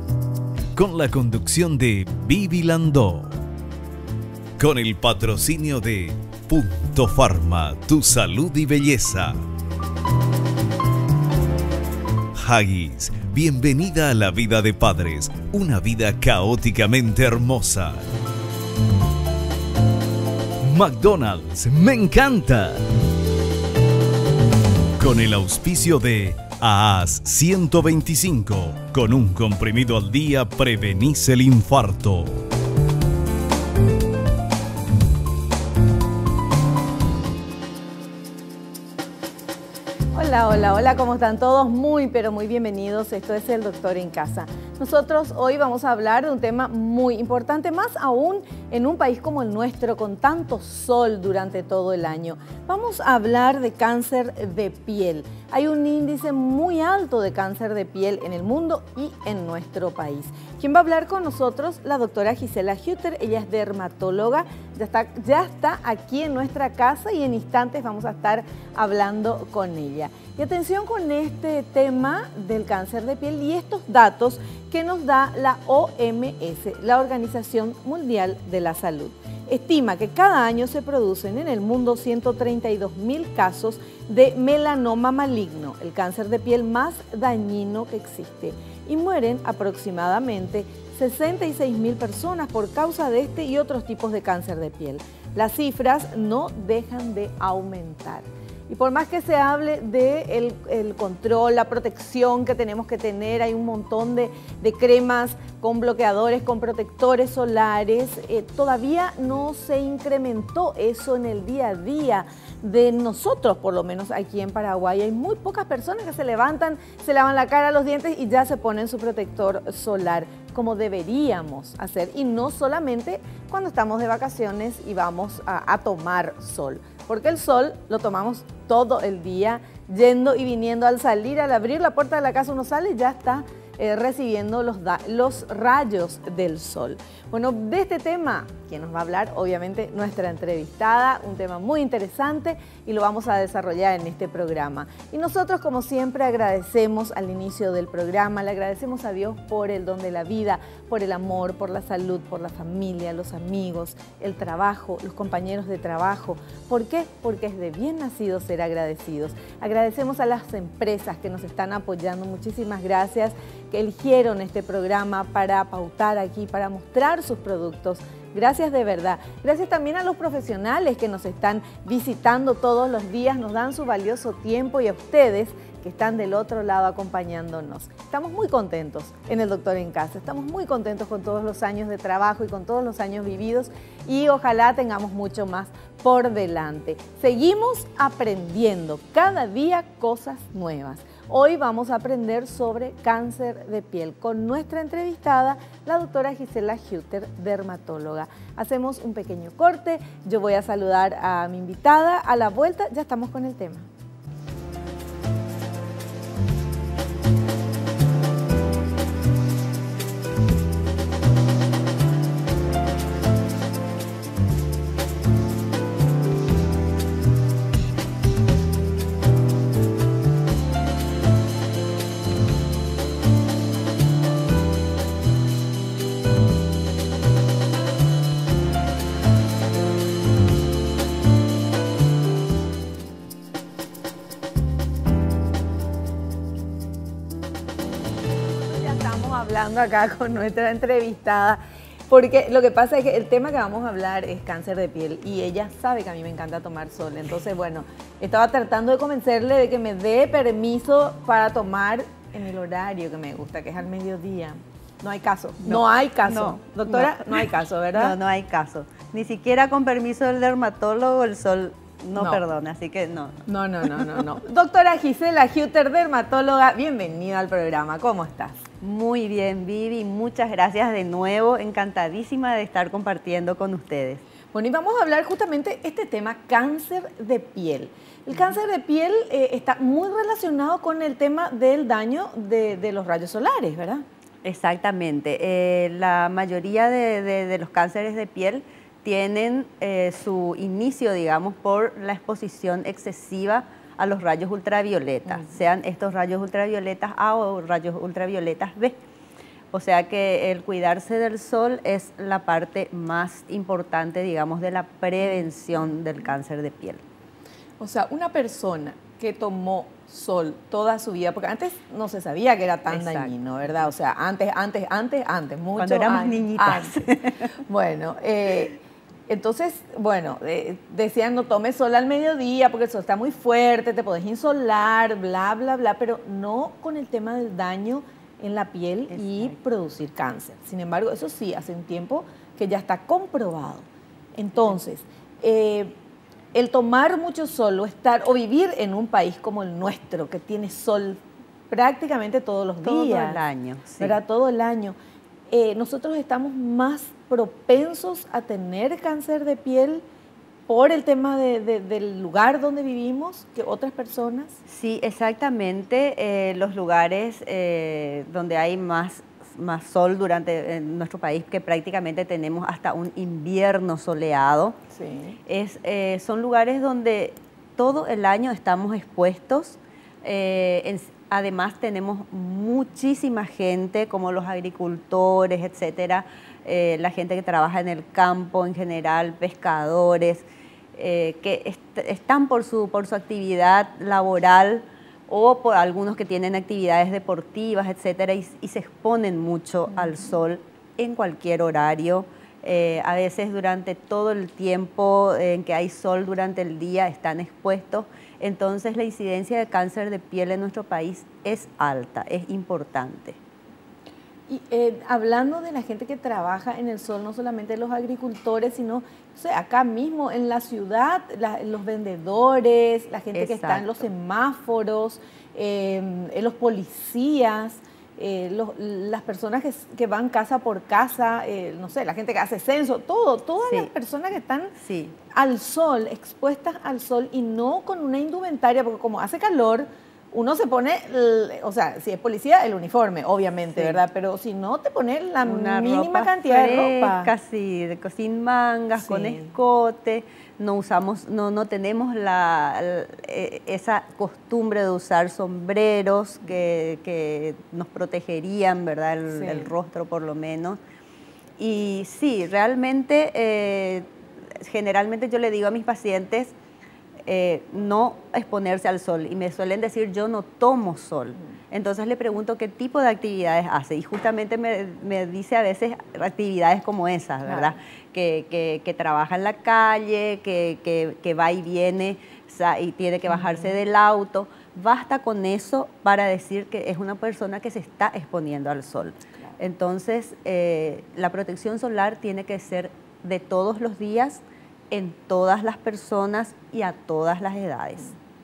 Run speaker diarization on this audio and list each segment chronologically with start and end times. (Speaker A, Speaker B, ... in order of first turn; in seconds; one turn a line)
Speaker A: 0.7-3.3
Speaker A: 4.6-9.4
Speaker A: 12.3-18.0
Speaker A: 20.6-22.8
Speaker A: 25.0-32.4
Speaker B: 40.1-203.9
Speaker B: 238.6-258.1
Speaker C: 255.6-257.4
Speaker C: 257.9-264.0
Speaker B: 262.1-262.4
Speaker B: 263.5-268.6
Speaker C: 268.8-274.2
Speaker B: 274.5-284.0
Speaker C: 284.4-299.0
Speaker C: 299.7-307.0
Speaker B: 307.8-317.0
Speaker C: 312.9-313.3
Speaker C: 315.8-317.5
Speaker B: 317.5-335.9
Speaker B: 336.5-343.4
Speaker C: 342.8-344.2
Speaker B: 344.0-344.9
Speaker B: 345.5-350.0
Speaker B: 350.7-354.6
Speaker C: 354.7-364.8
Speaker B: 364.9-365.4
Speaker C: 365.5-403.4
Speaker B: 404.5-424.7
Speaker C: 413.3-413.9
Speaker C: 424.8-425.2
Speaker B: 425.3-437.3
Speaker C: 433.7-434.0
Speaker C: 435.4-450.8
Speaker B: 439.0-439.5
Speaker B: 449.3-449.7
Speaker C: 451.6-456.5
Speaker C: 457.2-488.1
Speaker B: 467.4-467.7
Speaker B: 473.3-473.7